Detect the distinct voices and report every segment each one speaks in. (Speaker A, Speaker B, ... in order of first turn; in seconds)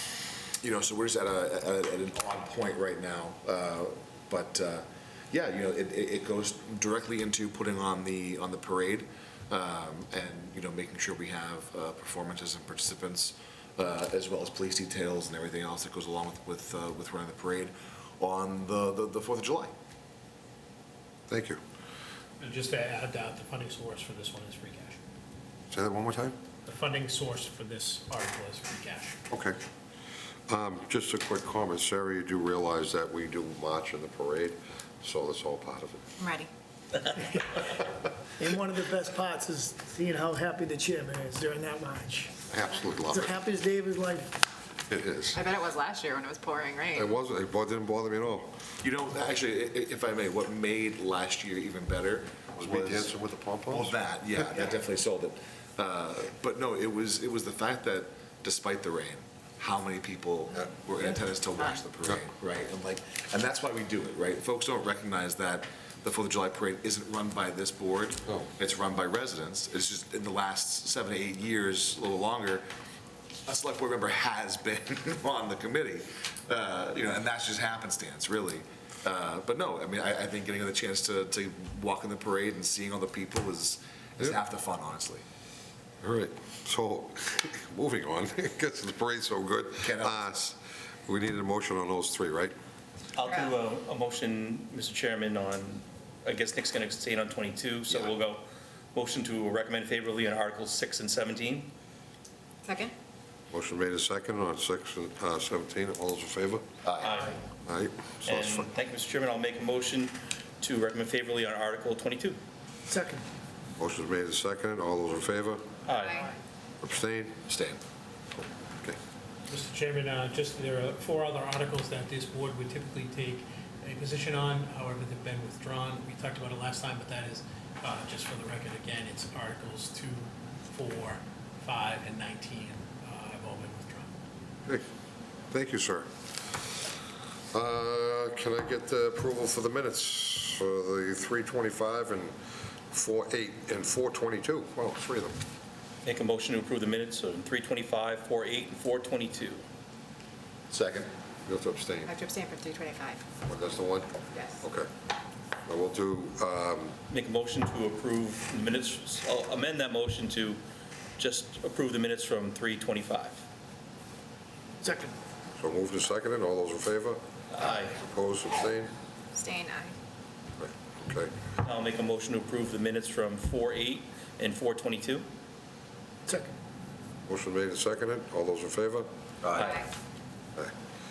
Speaker A: 0.6-19.7, 48.8-53.1, 53.7-72.6, 73.5-85.2, 89.8-90.5, 106.8-107.1, 117.5-117.8, 150.7-151.1
Speaker B: 21.3-21.6, 25.7-26.4, 29.3-29.6, 30.5-36.1, 42.5-43.3, 44.9-45.4, 46.9-48.5, 52.6-53.9, 86.0-92.5, 103.5-106.7, 107.6-108.7, 113.8-115.7, 116.8-117.4, 118.4-119.0, 135.5-136.6, 137.5-142.3, 142.9-145.3, 151.4-152.1, 153.5-154.9, 155.7-156.9, 165.6-167.2, 168.0-168.9, 170.6-171.3, 177.3-179.1
Speaker C: 22.4-25.0, 26.6-29.2, 119.5-134.1
Speaker D: 36.2-36.5, 45.3-47.1, 102.6-102.9, 152.1-153.2, 154.3-154.6, 169.3-169.9, 179.6-179.8
Speaker E: 38.4-42.4, 43.1-44.3, 112.9-113.2, 164.8-165.1, 176.2-176.5
Speaker F: 93.2-98.4, 98.9-101.7, 107.0-107.4, 108.2-112.4, 115.8-116.3, 146.0-149.6, 157.1-160.6, 161.2-163.4, 167.5-168.0, 171.6-175.2